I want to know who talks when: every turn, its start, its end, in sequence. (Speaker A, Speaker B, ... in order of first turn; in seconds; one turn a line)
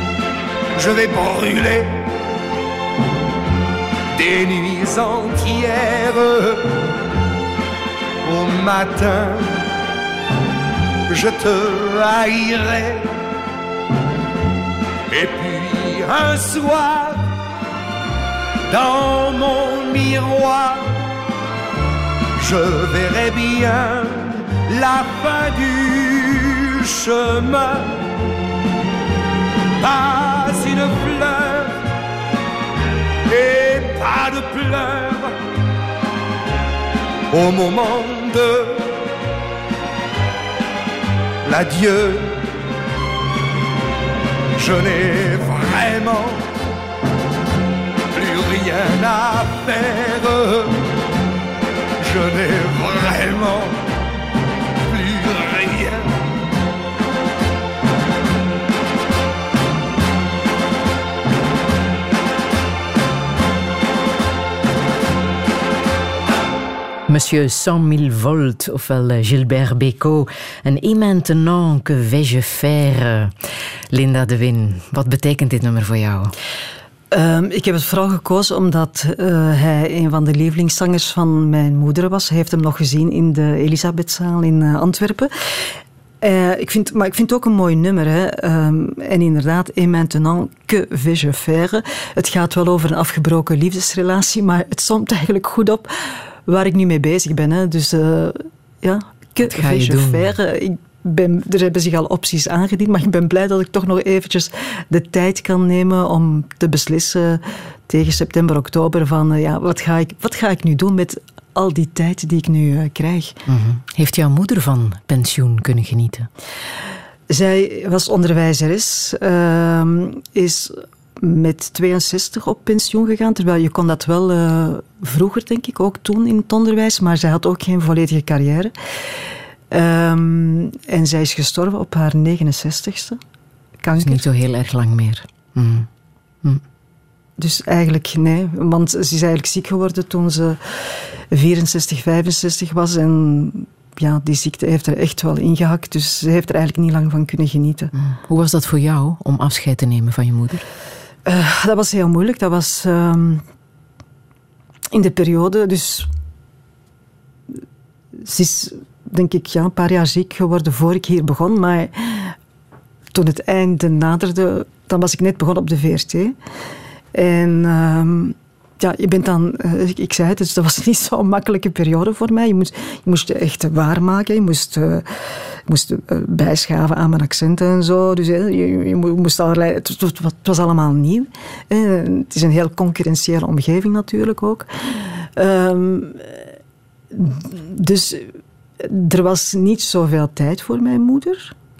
Speaker A: 0.7-2.1
Speaker A: 4.1-6.7
Speaker A: 8.2-9.6
Speaker A: 11.1-13.1
Speaker A: 15.1-17.3
Speaker A: 18.7-21.0
Speaker A: 22.4-28.0
Speaker A: 29.8-31.8
Speaker A: 33.2-35.4
Speaker A: 37.3-38.9
Speaker A: 41.4-42.4
Speaker A: 44.5-46.5
Speaker A: 48.1-50.8
Speaker A: 52.0-53.8
Speaker A: 54.9-56.2
Speaker B: 67.1-73.3
Speaker B: 73.9-76.3
Speaker C: 77.1-85.3
Speaker C: 86.2-113.4
Speaker B: 99.4-100.3
Speaker B: 113.5-116.3
Speaker C: 117.3-128.7
Speaker C: 129.7-133.2
Speaker C: 133.8-134.2
Speaker B: 134.0-135.9
Speaker C: 137.4-147.9
Speaker B: 147.9-150.6
Speaker C: 151.2-153.4
Speaker C: 154.9-156.1
Speaker C: 158.2-162.3
Speaker C: 163.1-166.3
Speaker C: 167.1-175.1
Speaker C: 175.7-186.3
Speaker C: 187.1-191.5